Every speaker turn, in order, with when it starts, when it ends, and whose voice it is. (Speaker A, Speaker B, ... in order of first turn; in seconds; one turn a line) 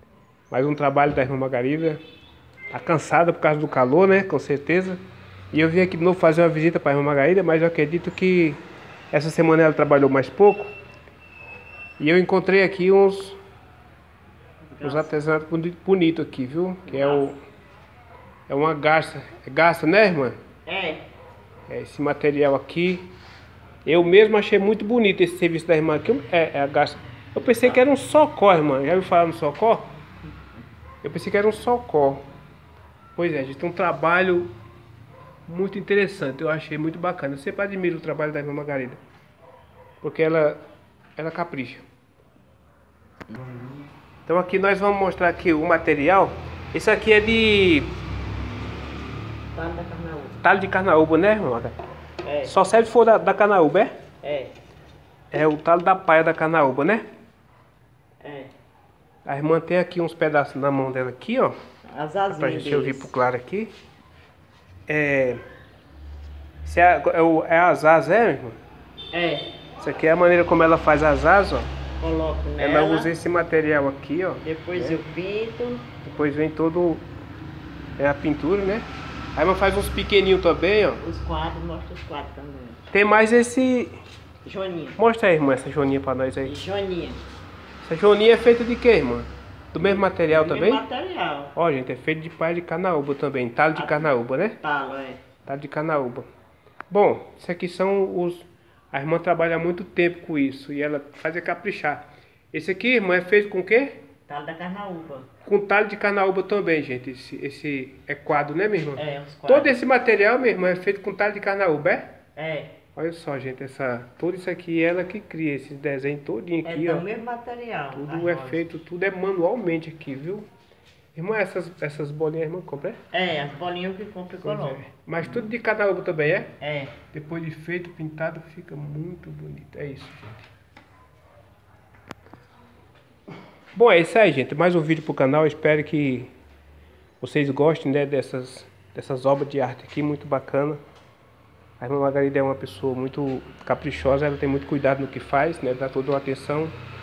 Speaker A: 0.5-2.0
Speaker A: 2.7-5.0
Speaker A: 5.5-10.7
Speaker A: 12.0-13.4
Speaker B: 14.7-15.1
Speaker A: 14.8-17.4
Speaker B: 16.9-17.3
Speaker A: 18.5-20.4
Speaker B: 20.7-21.1
Speaker A: 21.7-23.1
Speaker A: 23.9-29.9
Speaker A: 31.0-32.2
Speaker A: 33.1-34.5
Speaker A: 35.5-39.0
Speaker A: 40.0-40.6
Speaker A: 41.2-41.9
Speaker B: 43.3-43.7
Speaker A: 44.3-47.9
Speaker B: 49.5-50.4
Speaker A: 50.4-51.8
Speaker B: 52.2-52.5
Speaker A: 52.4-53.9
Speaker B: 54.2-54.6
Speaker A: 55.3-57.0
Speaker B: 58.2-58.5
Speaker A: 59.2-61.6
Speaker B: 61.9-63.1
Speaker A: 62.3-63.7
Speaker A: 64.9-65.4
Speaker A: 66.6-68.6
Speaker B: 69.1-69.5
Speaker A: 69.8-71.7
Speaker B: 72.0-73.1
Speaker A: 72.6-75.0
Speaker B: 74.4-75.9
Speaker A: 76.0-77.1
Speaker A: 78.0-81.0
Speaker B: 81.0-82.8
Speaker A: 82.9-84.0
Speaker B: 84.4-85.0
Speaker A: 85.0-86.6
Speaker B: 86.4-87.2
Speaker A: 87.8-90.8
Speaker B: 89.8-91.5
Speaker A: 91.5-94.6
Speaker B: 93.8-95.2
Speaker A: 95.5-96.3
Speaker A: 96.9-104.0
Speaker B: 104.3-105.3
Speaker A: 105.5-112.1
Speaker B: 109.0-109.7
Speaker B: 112.4-112.8
Speaker A: 113.0-117.0
Speaker B: 116.6-118.6
Speaker A: 117.9-120.5
Speaker A: 121.2-123.0
Speaker B: 123.1-124.8
Speaker A: 124.4-126.5
Speaker B: 126.6-127.0
Speaker A: 127.1-130.4
Speaker A: 133.8-136.3
Speaker A: 137.2-140.8
Speaker A: 141.8-146.8